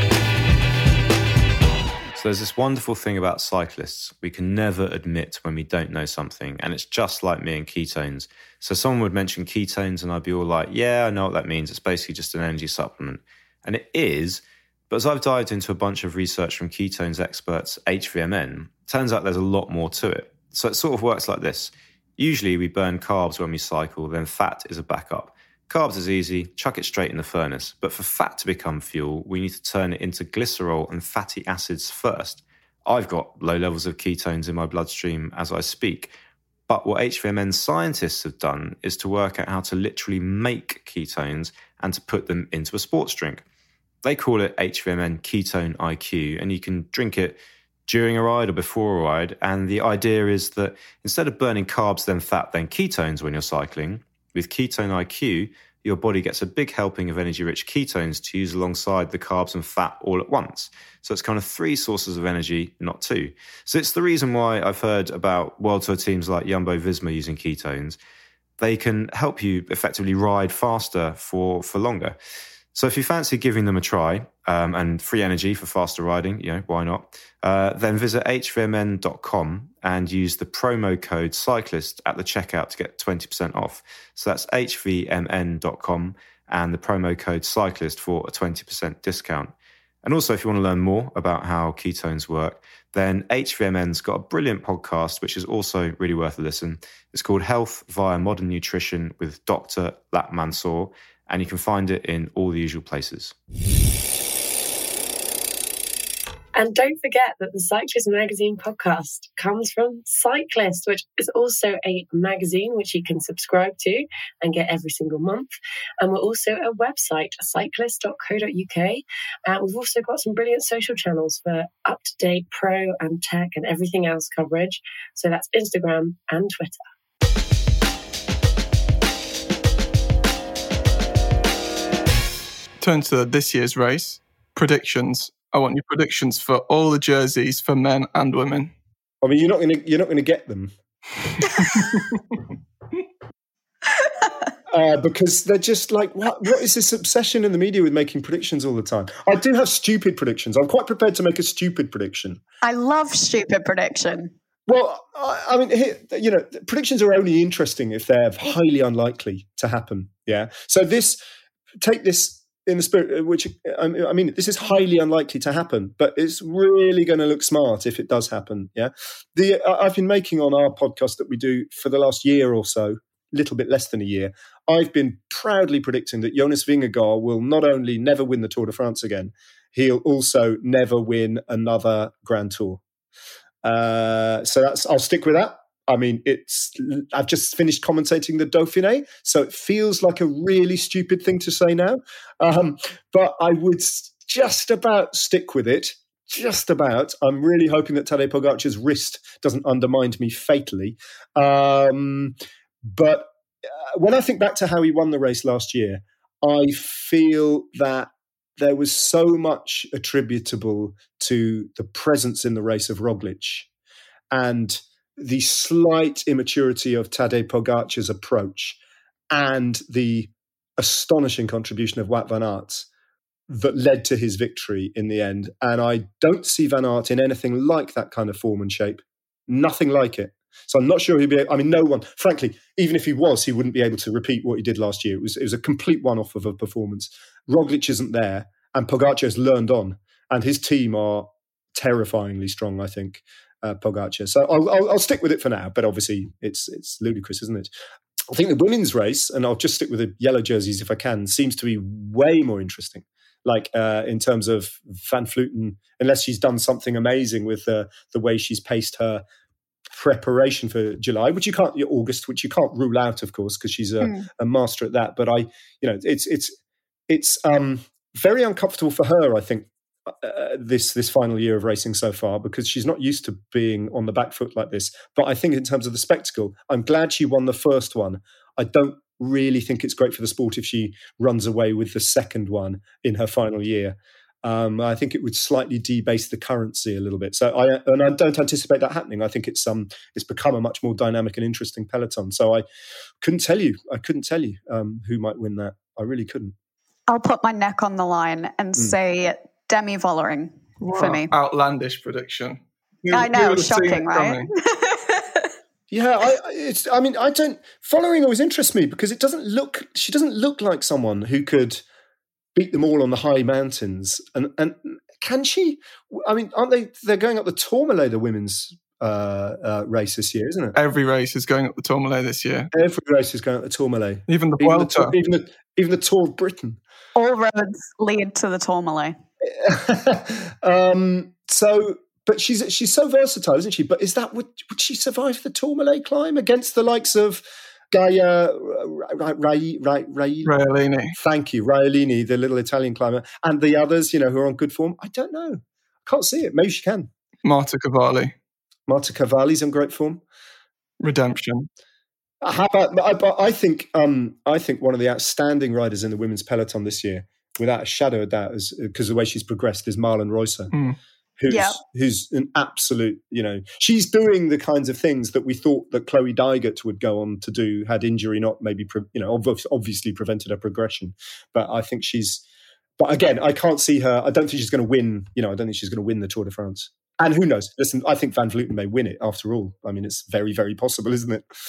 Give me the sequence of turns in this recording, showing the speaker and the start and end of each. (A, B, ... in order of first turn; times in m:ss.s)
0:02.1-0:36.1 A
0:36.7-0:43.4 A
0:44.0-1:08.0 A
1:08.6-1:12.2 A
1:12.7-1:43.3 A
1:46.5-2:06.8 B
2:12.8-2:18.7 C
2:19.2-2:20.7 D
2:21.2-2:22.2 D
2:24.7-2:32.4 D
2:32.6-2:34.3 E
2:34.7-2:41.2 D
2:41.8-3:02.8 D
3:03.6-3:23.3 D
3:23.8-3:33.7 D
3:34.3-3:38.8 D
3:39.3-3:42.9 D
3:43.5-4:07.7 D
4:08.3-4:19.2 D
4:19.9-4:26.6 D
4:24.0-4:24.3 E
4:27.1-4:52.6 D
4:53.2-4:56.5 D
4:57.1-5:01.3 E
5:00.8-5:04.5 C
5:03.1-5:05.5 E
5:05.9-5:11.8 D
5:12.5-5:20.8 D
5:20.8-5:22.7 C
5:22.7-5:26.8 D
5:24.3-5:25.1 C
5:27.2-5:29.2 E
5:29.5-5:40.5 D
5:40.4-5:41.2 C
5:41.1-5:47.1 D
5:47.4-5:48.3 C
5:48.9-5:50.2 D
5:51.0-5:51.7 C
5:52.4-6:00.7 D
6:00.7-6:01.0 C
6:01.4-6:12.4 D
6:01.5-6:01.8 E
6:13.0-6:21.4 D